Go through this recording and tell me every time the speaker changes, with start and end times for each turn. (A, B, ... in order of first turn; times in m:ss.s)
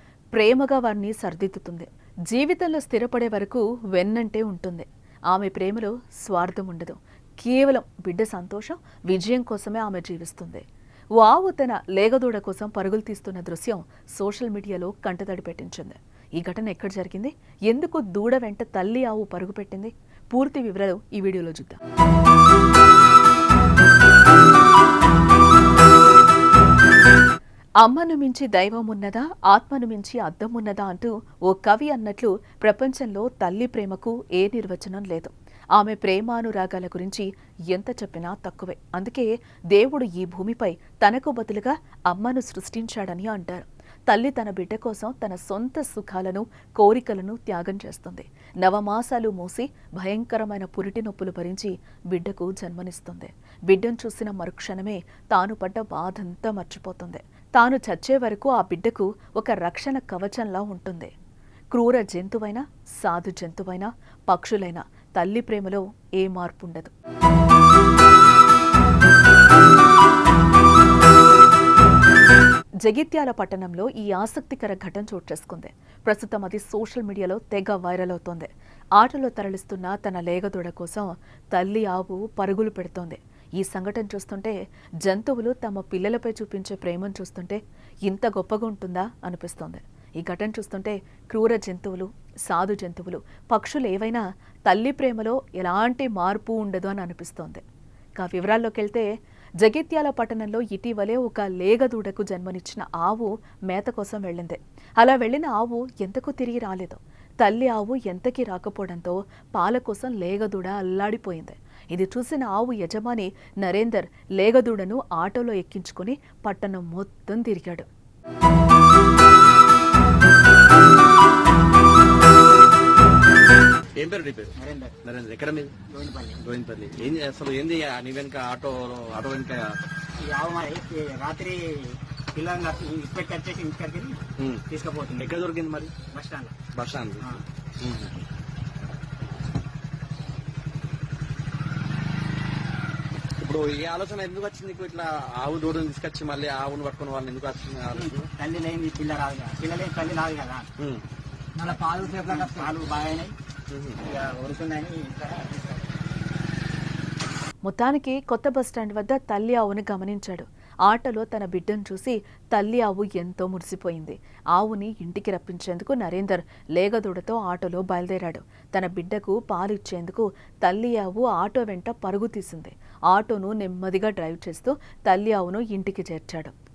0:00.3-0:10.6 A
0:11.2-0:21.8 A
0:27.8-1:01.1 A
1:01.7-1:06.9 A
1:12.8-1:37.6 A
1:38.2-1:57.9 A
2:04.0-2:05.7 B
2:04.6-2:04.9 C
2:05.9-2:06.4 C
2:06.4-2:09.8 B
2:10.2-2:15.3 C
2:15.2-2:15.9 B
2:16.1-2:16.5 C
2:16.7-2:17.2 B
2:17.8-2:18.2 B
2:23.4-2:28.3 B
2:27.9-2:30.7 C
2:30.8-2:31.0 B
2:31.6-2:33.3 C
2:33.7-2:34.0 B
2:34.0-2:35.8 C
2:37.6-2:56.5 A